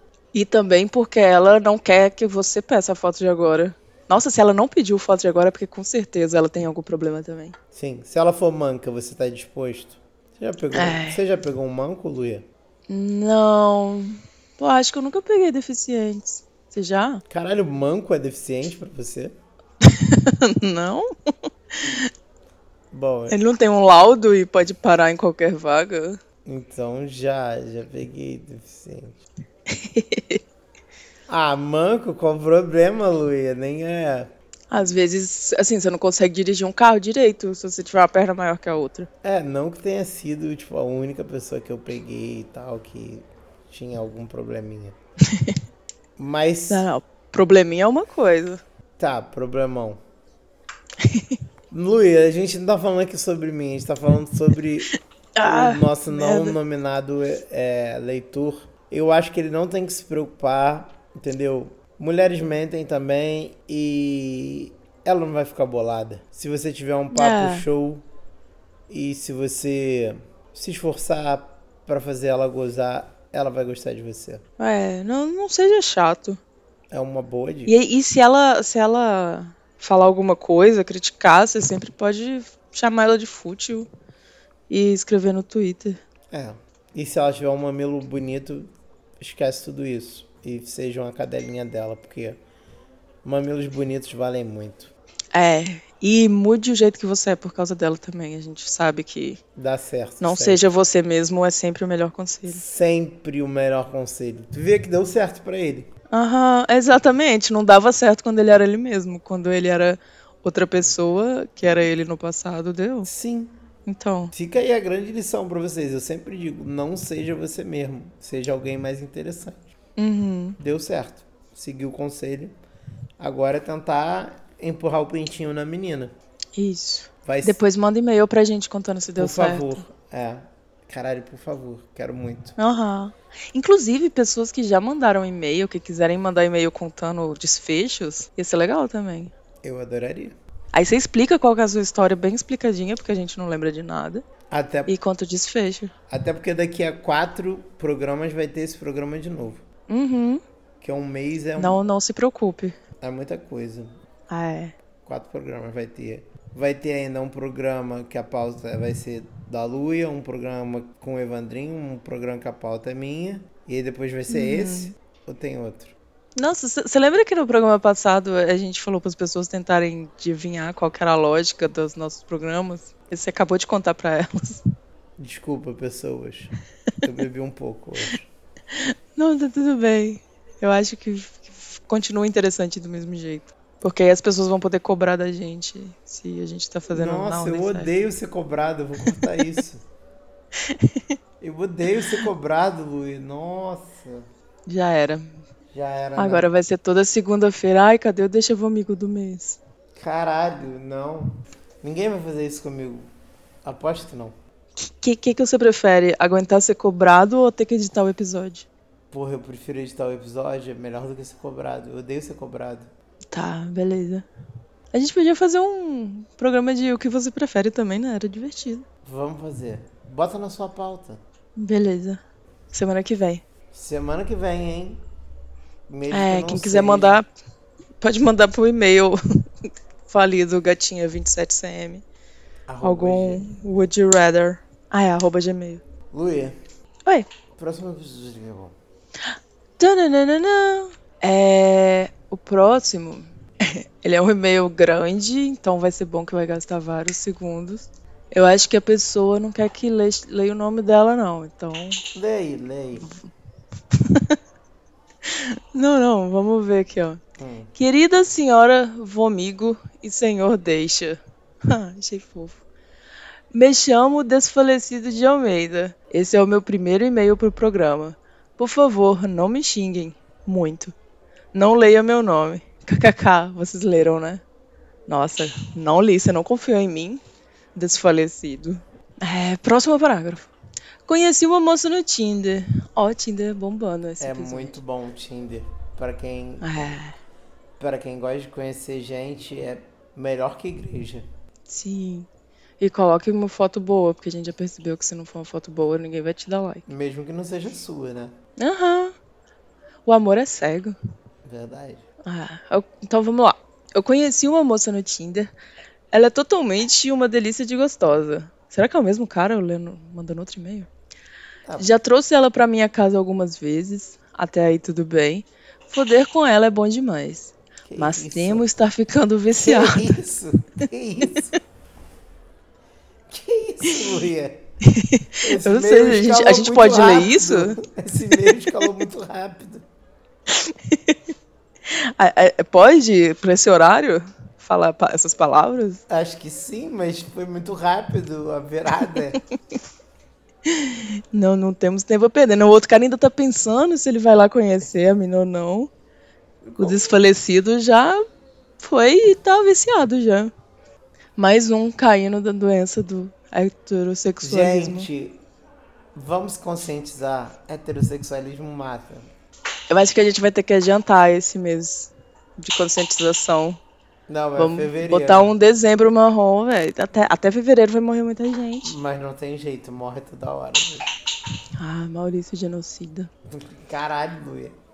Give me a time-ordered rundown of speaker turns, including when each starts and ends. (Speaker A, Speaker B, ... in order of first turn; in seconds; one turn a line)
Speaker A: 0.3-7.5
Speaker B: 7.7-12.4
Speaker A: 10.7-11.2
Speaker A: 12.9-17.2
Speaker B: 17.3-19.3
Speaker A: 19.8-21.1
Speaker A: 21.7-22.1
Speaker B: 22.9-23.4
Speaker A: 23.3-26.2
Speaker B: 26.4-29.2
Speaker A: 29.7-30.4
Speaker B: 31.3-34.3
Speaker A: 34.7-39.1
Speaker B: 39.2-45.0
Speaker A: 45.3-45.6
Speaker B: 46.2-46.9
Speaker A: 46.7-48.6
Speaker B: 49.0-50.0
Speaker A: 51.0-51.4
Speaker B: 51.7-68.1
Speaker A: 55.4-56.6
Speaker A: 67.1-67.7
Speaker B: 68.9-74.4
Speaker A: 74.6-76.4
Speaker B: 76.9-77.8
Speaker A: 77.7-83.9
Speaker A: 84.7-86.0
Speaker B: 86.3-92.4
Speaker B: 93.2-94.9
Speaker A: 95.3-99.4
Speaker B: 99.6-100.6
Speaker A: 100.2-102.6
Speaker B: 102.5-105.9
Speaker A: 106.1-113.1
Speaker B: 113.1-113.6
Speaker A: 113.9-114.3
Speaker B: 114.3-119.7
Speaker A: 120.0-120.6
Speaker B: 120.6-122.5
Speaker B: 123.2-126.1
Speaker A: 126.6-129.8
Speaker B: 127.2-127.6
Speaker B: 129.2-132.6
Speaker A: 132.6-139.3
Speaker B: 139.6-140.4
Speaker A: 140.7-144.3
Speaker B: 144.5-144.9
Speaker A: 144.9-145.9
Speaker B: 146.1-149.6
Speaker A: 149.9-150.4
Speaker B: 150.8-151.8
Speaker A: 151.6-152.8
Speaker B: 153.0-153.9
Speaker A: 154.3-154.8
Speaker B: 155.1-165.9
Speaker A: 164.3-164.9
Speaker A: 166.4-174.6
Speaker B: 175.2-178.3
Speaker A: 178.7-187.9
Speaker B: 186.9-189.8
Speaker A: 189.1-189.4
Speaker A: 190.6-191.0
Speaker B: 191.4-194.3
Speaker A: 194.7-195.4
Speaker B: 195.7-196.5
Speaker A: 196.2-199.6
Speaker B: 200.0-203.1
Speaker B: 203.6-204.3
Speaker A: 204.8-208.7
Speaker B: 209.1-212.9
Speaker A: 213.3-214.3
Speaker A: 214.9-218.8
Speaker B: 219.0-221.2
Speaker A: 221.6-223.4
Speaker B: 223.7-225.0
Speaker B: 225.9-227.2
Speaker A: 226.1-227.3
Speaker A: 228.0-232.0
Speaker B: 232.7-233.5
Speaker A: 232.8-235.8
Speaker B: 236.1-236.6
Speaker B: 237.6-238.8
Speaker A: 239.8-252.0
Speaker B: 252.2-253.1
Speaker A: 253.9-254.4
Speaker A: 255.2-257.2
Speaker B: 257.4-257.7
Speaker A: 257.8-262.6
Speaker A: 263.5-270.9
Speaker A: 271.5-274.4
Speaker A: 275.1-277.2
Speaker A: 277.8-280.5
Speaker A: 281.1-284.8
Speaker B: 284.2-286.9
Speaker A: 286.6-287.2
Speaker B: 287.8-291.3
Speaker A: 291.7-292.3
Speaker A: 292.8-296.9
Speaker B: 296.9-298.3
Speaker A: 298.6-299.1
Speaker A: 300.1-301.0
Speaker B: 301.4-302.0
Speaker A: 302.2-305.5
Speaker A: 306.1-310.9
Speaker A: 311.8-320.2
Speaker B: 317.9-318.7
Speaker B: 319.6-321.6
Speaker B: 323.3-324.7
Speaker A: 324.8-327.8
Speaker B: 325.4-329.9
Speaker A: 330.5-331.2
Speaker A: 331.9-336.0
Speaker B: 336.1-339.4
Speaker A: 340.7-345.9
Speaker B: 346.7-347.0
Speaker A: 346.8-348.2
Speaker A: 348.8-350.5
Speaker A: 351.4-355.1
Speaker B: 354.4-355.4
Speaker B: 356.1-359.3
Speaker A: 359.9-363.8
Speaker B: 364.3-365.5
Speaker A: 364.6-368.9
Speaker B: 368.8-371.1
Speaker A: 371.8-373.3
Speaker B: 373.5-374.8